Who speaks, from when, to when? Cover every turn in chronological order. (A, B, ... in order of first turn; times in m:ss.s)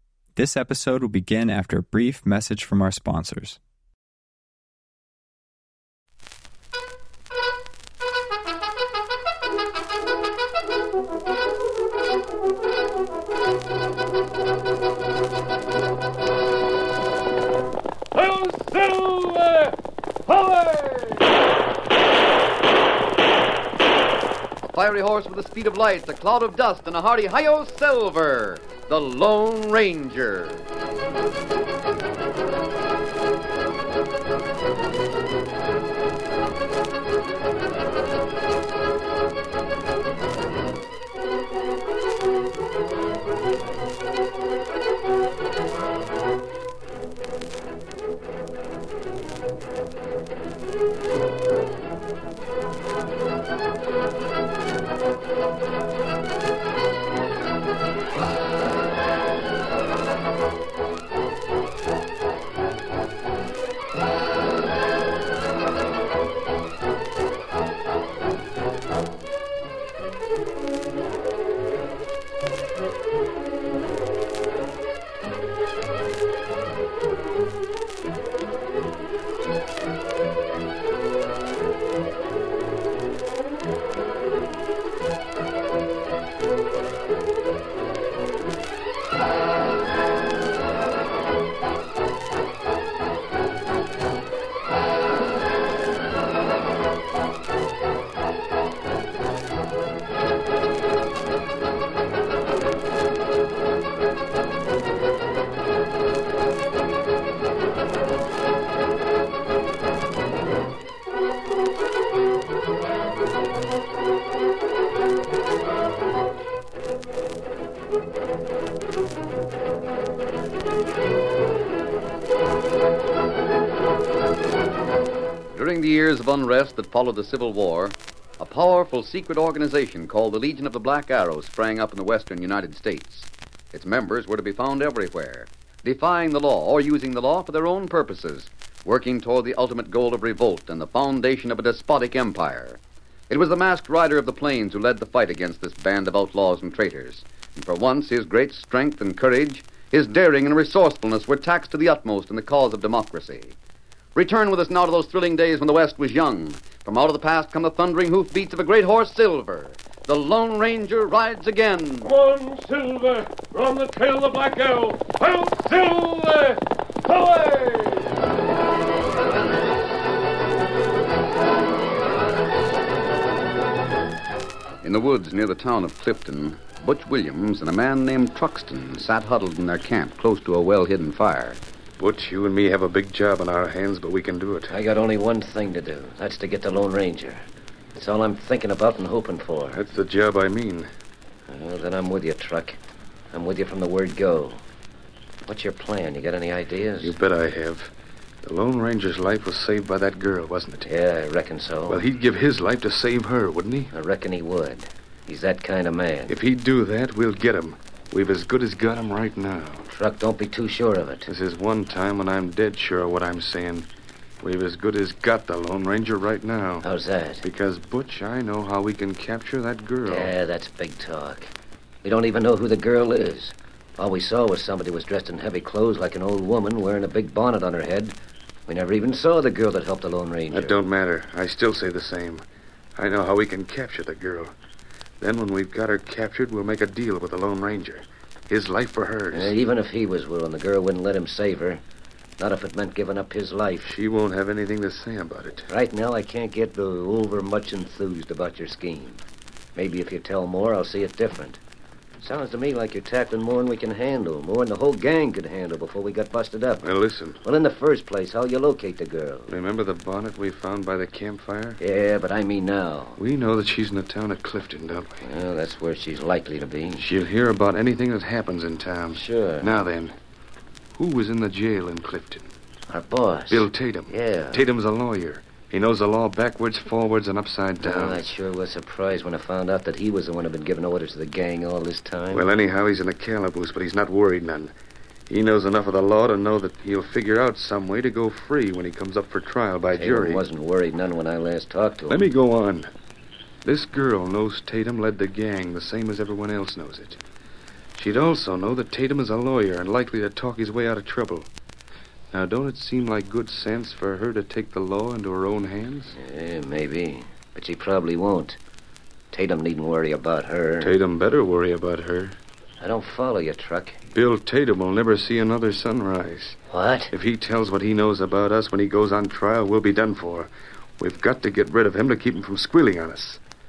0:00.4-0:03.6 A
0:24.6-0:30.6 B
2:05.5-2:33.6 B
2:34.1-2:42.1 B
2:42.0-2:48.0 C
2:54.8-3:01.6 B
3:02.0-3:04.7 D
3:04.7-3:07.4 E
3:07.9-3:09.8 E
3:09.7-3:10.9 D
3:11.5-3:12.8 E
3:13.3-3:14.6 E
3:15.4-3:17.2 E
3:17.0-3:17.9 D
3:18.4-3:20.9 D
3:20.8-3:22.0 E
3:21.9-3:23.9 D
3:23.9-3:26.4 E
3:26.3-3:29.8 D
3:29.9-3:31.3 E
3:31.3-3:33.9 D
3:34.4-3:36.8 D
3:36.8-3:37.4 E
3:37.4-3:40.3 D
3:40.1-3:41.5 E
3:42.0-3:48.1 E
3:48.7-3:50.8 E
3:50.5-3:52.4 D
3:53.0-3:54.5 D
3:55.2-3:59.5 D
3:59.3-4:01.8 E
4:02.4-4:03.9 E
4:03.8-4:05.7 D
4:05.7-4:09.2 E
4:09.8-4:11.6 E
4:12.2-4:16.9 E
4:16.8-4:17.4 D
4:17.4-4:19.5 E
4:19.5-4:21.8 D
4:21.8-4:23.2 E
4:23.2-4:25.1 D
4:25.2-4:27.0 E
4:27.0-4:30.1 D
4:29.1-4:29.7 E
4:30.9-4:32.4 D
4:32.9-4:34.6 E
4:33.5-4:38.2 D
4:37.8-4:42.4 E
4:42.3-4:44.7 D
4:45.3-4:50.4 D
4:49.9-4:52.2 E
4:52.1-4:52.9 D
4:53.6-4:57.2 D
4:57.9-5:01.5 D
5:02.3-5:06.1 D
5:06.2-5:08.6 E
5:09.3-5:10.9 E
5:10.8-5:12.3 D
5:12.8-5:14.0 E
5:14.1-5:16.6 D
5:16.7-5:17.1 E
5:17.1-5:23.4 D